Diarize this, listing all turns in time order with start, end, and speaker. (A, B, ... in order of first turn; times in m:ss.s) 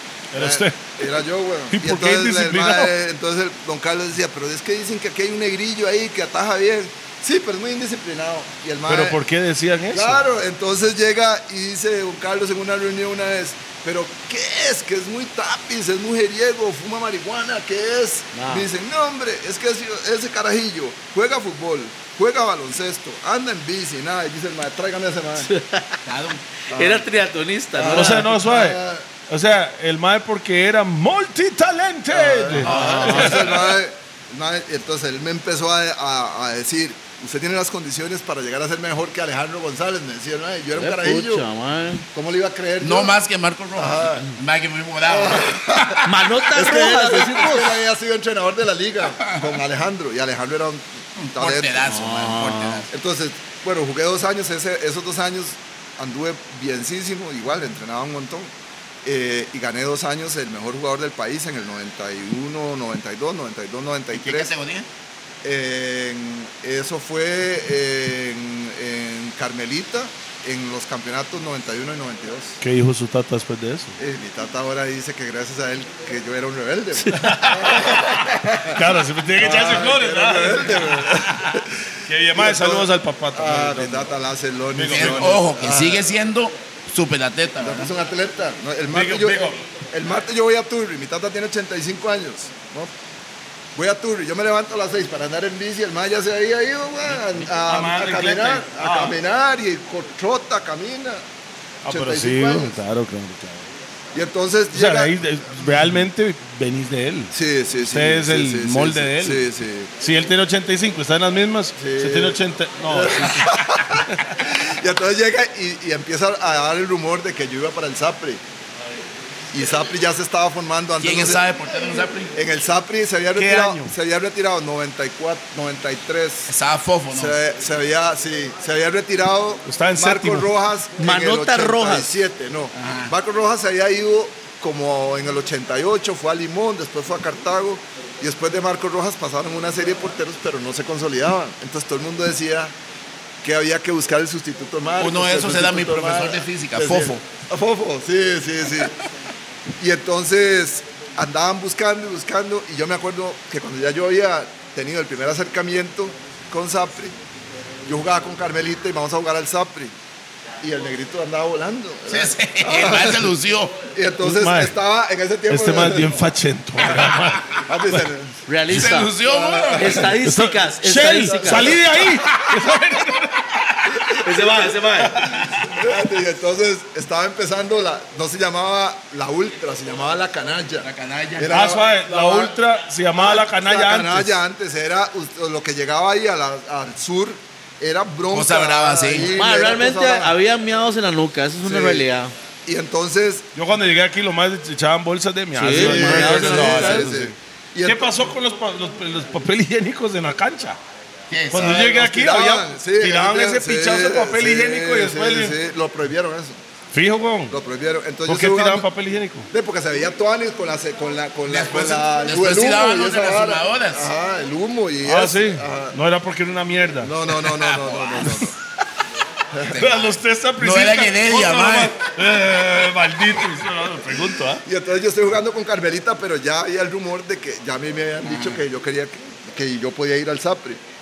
0:00.3-0:01.0 A
0:00.4-0:09.2 B
0:01.7-0:02.9 A
0:08.9-0:10.2 A
0:09.9-0:25.5 B
0:18.3-0:18.7 C
0:25.4-0:26.0 C
0:26.1-0:26.5 D
0:26.7-0:27.1 B
0:26.7-0:28.3 C
0:27.8-0:29.1 B
0:27.9-0:33.8 A
0:32.1-0:41.4 B
0:32.6-0:33.5 C
0:32.6-0:33.3 D
0:40.8-0:42.0 C
0:42.1-0:43.2 B
0:42.8-0:45.9 D
0:43.8-0:44.3 B
0:45.0-0:52.0 B
0:46.0-0:47.8 C
0:49.1-0:49.5 D
0:51.2-0:52.9 D
0:51.8-0:52.9 C
0:52.9-0:58.5 B
0:59.0-1:04.5 B
1:04.1-1:04.9 D
1:05.4-1:12.6 B
1:12.6-1:14.0 A
1:14.0-1:18.8 B
1:17.0-1:17.6 C
1:17.1-1:24.1 A
1:19.4-1:26.1 B
1:24.8-1:25.4 A
1:24.8-1:27.9 D
1:27.6-1:32.9 B
1:28.9-1:29.6 A
1:33.8-1:41.2 B
1:37.6-1:39.2 A
1:41.8-1:43.7 A
1:41.9-1:42.8 B
1:44.1-1:46.0 B
1:44.7-1:49.4 A
1:47.3-1:50.0 B
1:50.0-1:54.4 A
1:51.8-1:58.4 B
1:59.5-2:01.5 B
2:01.0-2:02.4 D
2:02.3-2:06.5 B
2:03.4-2:03.9 A
2:06.5-2:07.4 D
2:07.1-2:22.7 B
2:09.7-2:10.5 A
2:11.0-2:12.1 C
2:12.7-2:13.1 D
2:23.4-2:29.0 B
2:25.0-2:27.2 D
2:29.8-2:37.2 B
2:37.8-2:39.9 B
2:40.6-2:46.2 B
2:42.1-2:43.8 D
2:44.2-2:44.8 A
2:45.5-2:48.1 A
2:47.6-2:48.4 B
2:48.5-2:49.1 C
2:48.7-2:50.2 D
2:49.2-2:50.2 B
2:49.8-2:51.8 C
2:50.2-2:54.4 A
2:51.5-2:52.0 B
2:54.2-2:55.2 C
2:55.0-2:55.8 A
2:55.5-3:02.6 B
3:00.8-3:01.6 D
3:01.5-3:04.4 A
3:03.2-3:10.4 B
3:08.3-3:09.4 D
3:09.3-3:12.3 C
3:11.6-3:12.1 B
3:12.7-3:13.5 B
3:13.6-3:20.8 A
3:15.6-3:17.1 C
3:15.7-3:18.2 B
3:21.3-3:21.8 D
3:21.5-3:25.6 A
3:21.5-3:26.6 B
3:26.9-3:27.6 A
3:27.5-3:28.9 B
3:28.3-3:29.5 A
3:29.5-3:36.0 B
3:31.5-3:34.1 D
3:35.0-3:37.5 A
3:37.0-3:38.6 B
3:37.4-3:38.5 D
3:39.5-3:39.8 B
3:39.7-3:40.1 D
3:39.8-3:44.6 A
3:40.6-3:42.0 D
3:44.6-3:50.8 B
3:48.2-3:48.6 D